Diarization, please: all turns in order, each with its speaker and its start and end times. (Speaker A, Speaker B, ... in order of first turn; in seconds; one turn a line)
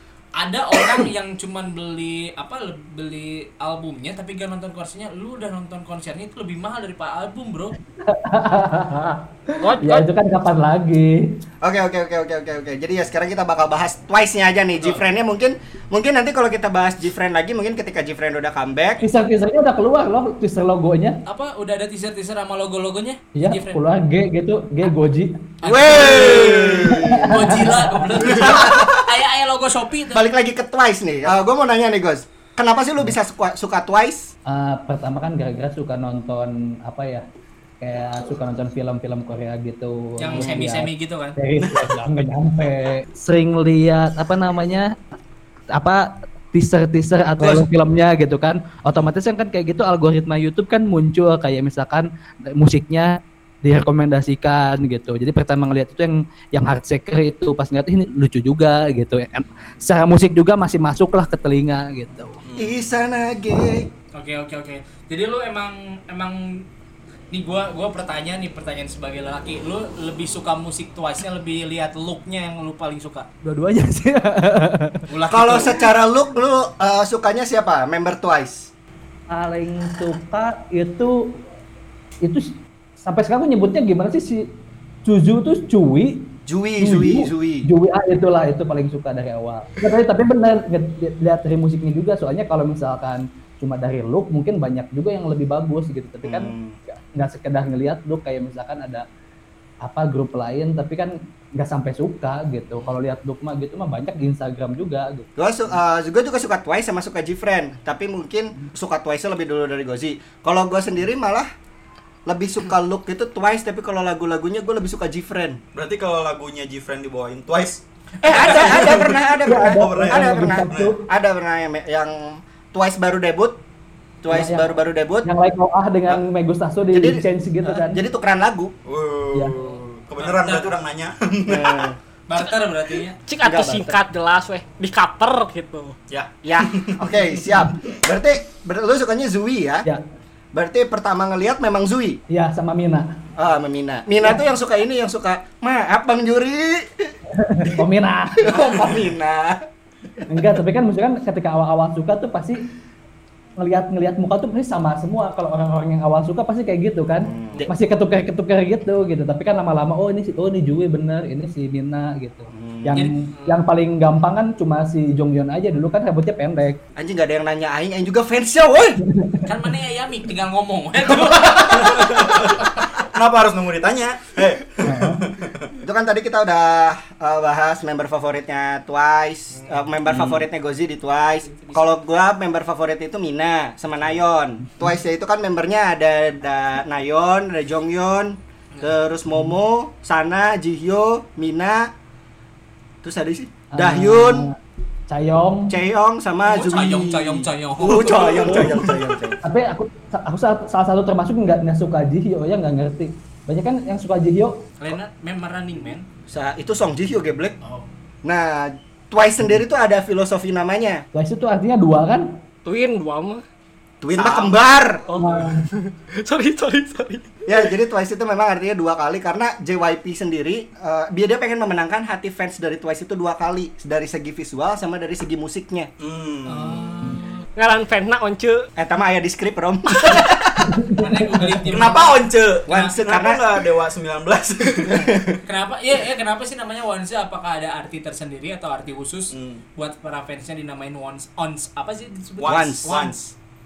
Speaker A: 0.4-7.7
Speaker B: 8.0-11.3
Speaker C: 9.6-10.1
Speaker D: 11.6-19.1
Speaker A: 14.7-15.0
Speaker B: 19.0-21.2
Speaker A: 21.2-23.8
Speaker B: 23.4-25.5
Speaker A: 25.6-30.2
Speaker D: 25.6-27.1
Speaker E: 25.8-26.9
Speaker B: 26.9-28.4
Speaker D: 28.3-28.9
Speaker D: 30.1-34.3
Speaker B: 34.5-37.2
Speaker B: 37.8-45.0
Speaker A: 40.2-41.4
Speaker E: 41.6-41.9
Speaker B: 45.7-62.4
Speaker E: 62.4-62.7
Speaker D: 62.6-63.9
Speaker A: 64.1-66.6
Speaker A: 67.3-73.3
Speaker B: 73.4-75.0
Speaker A: 75.1-75.8
Speaker D: 75.3-78.7
Speaker B: 79.3-81.4
Speaker B: 82.2-84.5
Speaker B: 85.0-99.0
Speaker D: 86.5-87.7
Speaker D: 96.2-96.8
Speaker B: 99.8-105.3
Speaker D: 105.4-111.5
Speaker D: 112.2-115.6
Speaker E: 115.7-121.0
Speaker D: 118.2-123.6
Speaker A: 118.3-118.6
Speaker B: 119.4-121.0
Speaker D: 124.2-125.3
Speaker B: 124.3-128.0
Speaker D: 126.9-128.7
Speaker E: 128.8-131.9
Speaker A: 130.2-130.7
Speaker D: 131.4-131.9
Speaker A: 132.3-133.2
Speaker C: 133.3-135.9
Speaker D: 133.4-134.0
Speaker E: 136.1-137.0
Speaker D: 136.4-139.9
Speaker D: 140.5-142.2
Speaker B: 142.3-143.2
Speaker D: 143.3-147.1
Speaker B: 147.3-148.6
Speaker D: 148.4-149.6
Speaker B: 150.3-152.7
Speaker B: 153.6-166.8
Speaker D: 157.2-157.7
Speaker D: 162.5-163.0
Speaker A: 162.9-163.5
Speaker D: 166.9-169.0
Speaker B: 169.0-169.4
Speaker A: 169.4-172.6
Speaker E: 171.7-175.7
Speaker B: 174.8-175.3
Speaker D: 175.8-191.9
Speaker A: 179.5-179.9
Speaker E: 180.1-180.4
Speaker A: 181.5-181.9
Speaker D: 193.0-194.5
Speaker B: 193.7-194.6
Speaker B: 195.1-195.8
Speaker D: 195.7-199.4
Speaker A: 196.4-198.6
Speaker E: 197.8-199.2
Speaker B: 199.4-204.6
Speaker A: 204.8-206.1
Speaker D: 206.3-207.6
Speaker A: 207.6-207.9
Speaker D: 208.2-211.0
Speaker B: 211.1-212.3
Speaker C: 212.6-213.4
Speaker D: 214.0-215.0
Speaker E: 214.2-214.5
Speaker C: 215.1-217.4
Speaker B: 215.2-215.7
Speaker D: 217.5-225.9
Speaker E: 226.0-227.2
Speaker A: 226.4-227.4
Speaker C: 227.6-228.7
Speaker D: 228.8-230.7
Speaker B: 230.7-231.6
Speaker A: 230.9-232.2
Speaker E: 231.7-235.1
Speaker D: 232.7-233.4
Speaker D: 234.8-235.4
Speaker A: 235.4-243.3
Speaker E: 239.3-239.6
Speaker E: 242.4-243.2
Speaker D: 242.4-242.9